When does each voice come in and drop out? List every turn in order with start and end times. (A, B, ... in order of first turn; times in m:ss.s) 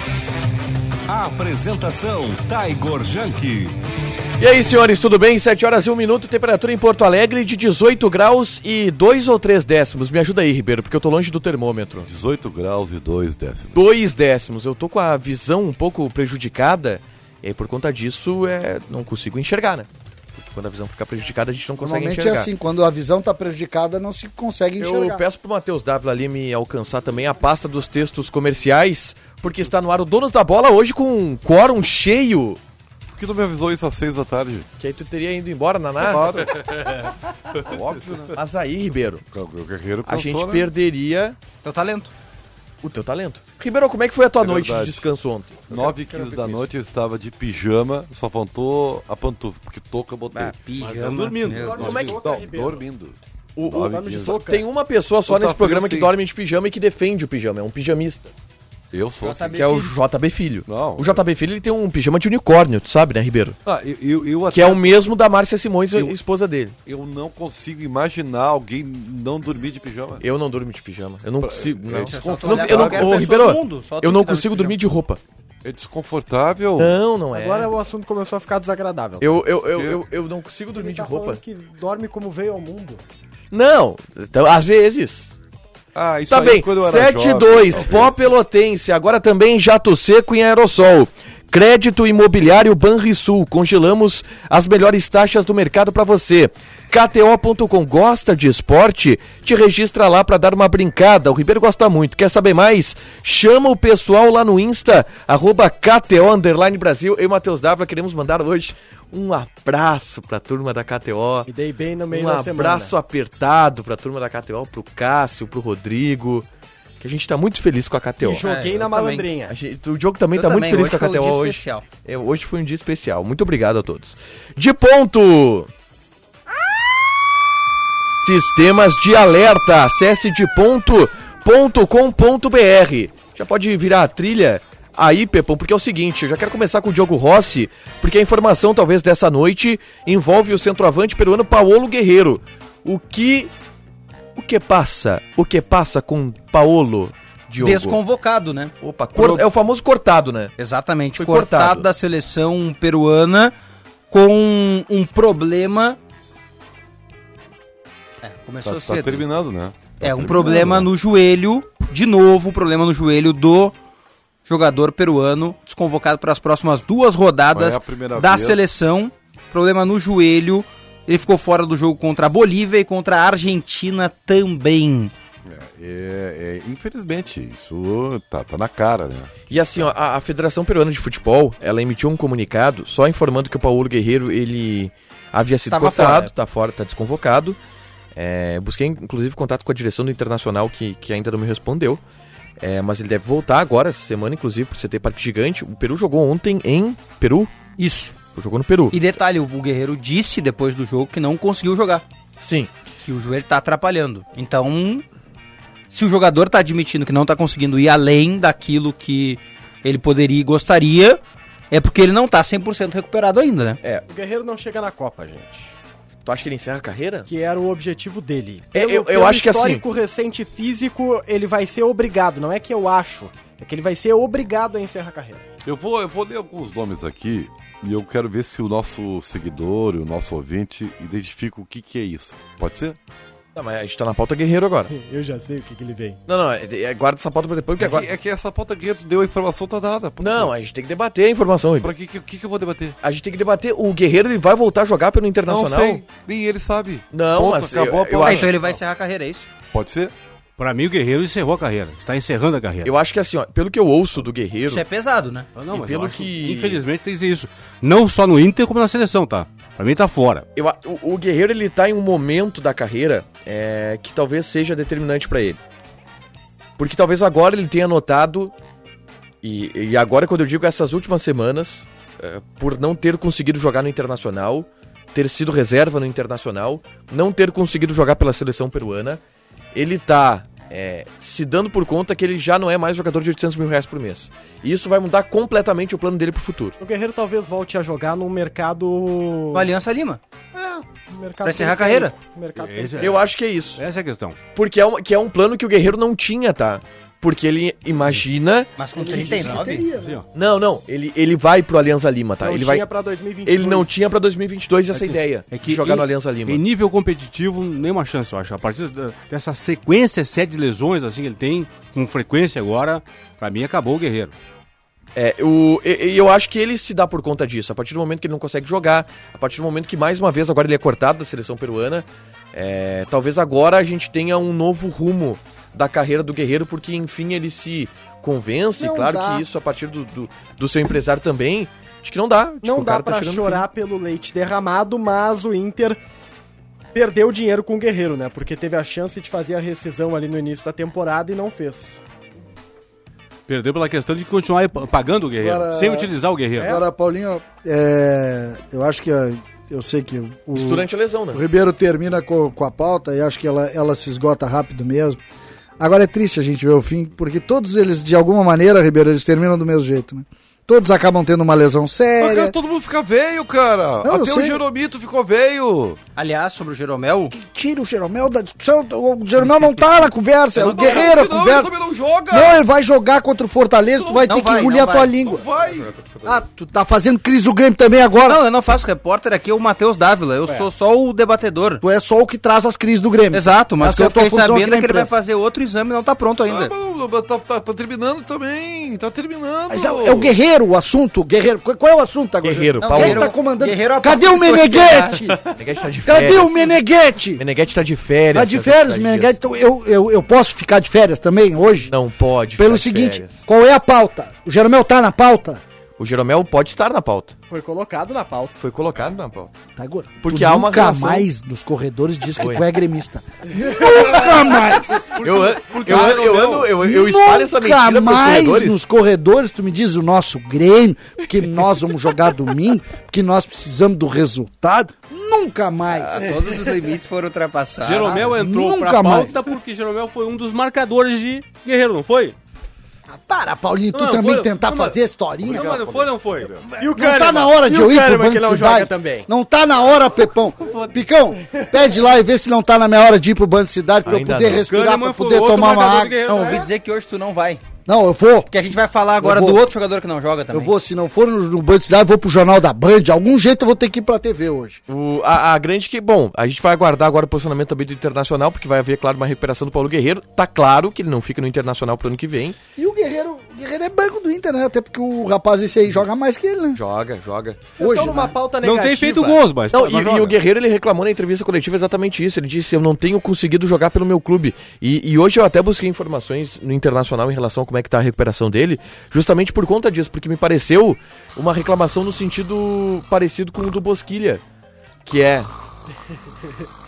0:01.1-0:03.8 A
0:04.4-0:12.1 B
0:12.0-0:13.8 C
0:13.7-0:22.5 B
0:21.8-0:25.2 D
0:24.8-0:32.6 B
0:33.1-0:34.7 C
0:34.8-0:36.4 B
0:36.0-0:37.0 C
0:37.6-0:38.4 C
0:38.3-0:39.2 B
0:39.3-0:40.7 C
0:40.0-0:41.4 B
0:41.6-0:42.1 E
0:42.8-0:45.9 B
0:44.4-0:45.1 C
0:45.7-0:50.6 C
0:50.3-0:51.9 E
0:50.8-0:52.0 F
0:51.5-0:52.8 G
0:51.7-0:54.4 C
0:51.8-0:52.2 B
0:53.6-0:58.3 B
0:53.9-0:54.7 G
0:55.2-0:56.1 C
0:58.9-0:59.6 C
0:59.2-0:59.9 E
0:59.5-1:03.6 B
1:00.7-1:01.3 C
1:03.6-1:05.2 C
1:04.5-1:06.8 B
1:06.8-1:10.2 C
1:10.2-1:15.2 B
1:11.4-1:13.3 C
1:12.0-1:14.8 E
1:15.6-1:17.0 C
1:16.8-1:17.7 B
1:17.3-1:19.6 G
1:19.2-1:21.4 B
1:19.7-1:20.0 C
1:20.7-1:23.0 G
1:23.5-1:25.3 B
1:25.9-1:28.2 C
1:26.3-1:51.5 B
1:51.5-1:53.0 G
1:52.1-1:56.4 B
1:57.0-1:58.4 B
1:58.2-1:59.6 G
1:58.3-1:59.3 E
1:59.5-2:05.7 B
2:00.3-2:01.8 E
2:08.2-2:23.5 B
2:24.4-2:28.0 B
2:27.6-2:28.7 E
2:28.8-2:30.5 B
2:29.1-2:29.5 C
2:30.6-2:33.5 E
2:31.2-2:31.9 B
2:34.1-2:36.0 E
2:38.2-2:39.2 E
2:38.6-2:40.9 C
2:40.0-2:43.7 E
2:40.2-2:40.8 B
2:44.4-2:55.1 E
2:47.5-2:48.6 C
2:55.4-2:59.9 C
2:59.5-3:07.6 B
3:05.7-3:06.3 E
3:08.1-3:12.0 B
3:12.6-3:17.5 B
3:17.8-3:18.1 E
3:18.3-3:19.1 B
3:18.9-3:22.0 E
3:22.4-3:22.7 B
3:23.0-3:25.0 E
3:25.9-3:31.2 E
3:31.7-3:33.8 E
3:34.1-3:35.7 G
3:36.2-3:37.3 B
3:37.3-3:45.4 G
3:38.7-3:39.8 B
3:45.6-3:53.0 C
3:53.5-3:54.9 B
3:54.9-3:56.2 G
3:56.3-3:58.1 B
3:57.8-4:00.5 C
4:00.2-4:01.9 B
4:01.8-4:03.0 C
4:03.0-4:06.0 B
4:05.4-4:08.6 C
4:07.1-4:08.5 B
4:08.2-4:09.5 E
4:09.7-4:10.1 C
4:10.6-4:12.9 F
4:12.8-4:14.8 B
4:14.7-4:15.5 E
4:15.6-4:20.4 F
4:15.7-4:16.8 B
4:20.6-4:25.6 B
4:26.8-4:28.5 B
4:29.4-4:39.2 B
4:39.7-4:46.8 B
4:46.8-4:49.7 G
4:49.5-4:50.2 E
4:50.5-4:53.3 G
4:51.4-4:52.1 E
4:52.6-4:53.2 F
4:53.0-4:53.8 B
4:53.8-4:54.4 F
4:54.5-4:58.7 B
4:58.8-4:59.9 E
4:58.9-5:00.2 D
4:59.4-5:00.2 F
5:00.3-5:02.8 B
5:02.4-5:03.9 G
5:03.4-5:06.6 B
5:04.9-5:14.3 F
5:15.1-5:33.6 B
5:28.8-5:29.5 G
5:32.6-5:36.0 G
5:36.9-5:42.0 G
5:43.5-5:46.8 F
5:45.4-5:55.2 D
5:46.6-5:46.8 G
5:50.5-5:51.4 B
5:55.8-6:02.5 D
6:02.2-6:06.0 C
6:04.0-6:04.6 D
6:06.2-6:07.3 E
6:07.3-6:11.7 D
6:10.5-6:12.6 C
6:12.3-6:15.4 D
6:14.0-6:15.1 E
6:15.2-6:15.9 C
6:15.7-6:16.4 B
6:16.2-6:18.4 D
6:18.2-6:21.8 E
6:21.8-6:25.1 D
6:23.3-6:26.7 E
6:26.5-6:30.3 C
6:29.7-6:35.4 D
6:32.4-6:33.3 B
6:32.8-6:35.2 E
6:35.4-6:36.8 B
6:36.0-6:37.4 D
6:37.4-6:39.3 B
6:38.3-6:41.9 D
6:41.9-6:43.4 B
6:42.6-6:45.6 D
6:46.0-6:47.3 B
6:47.5-6:48.6 G
6:48.6-6:49.5 B
6:49.8-6:55.1 D
6:50.2-6:51.3 B
6:52.4-6:52.6 B
6:55.2-6:56.8 F
6:55.2-6:58.8 B
6:55.9-6:56.2 D
6:56.8-7:06.3 D
7:05.9-7:08.3 E
7:07.8-7:12.4 F
7:08.1-7:09.3 D
7:13.1-7:15.8 D
7:13.9-7:16.5 F
7:15.4-7:16.7 C
7:16.7-7:26.6 D
7:16.8-7:19.3 G
7:20.6-7:21.9 G
7:24.0-7:24.7 B
7:24.7-7:26.6 F
7:26.3-7:27.6 E
7:27.8-7:28.5 D
7:28.5-7:30.7 E
7:29.2-7:29.7 D
7:30.5-7:34.8 D
7:34.9-7:42.6 B
7:42.8-7:46.8 D
7:46.7-7:47.7 B
7:47.8-7:49.4 G
7:47.8-7:48.4 D
7:48.6-7:50.4 F
7:49.7-8:04.4 B
8:05.0-8:05.5 B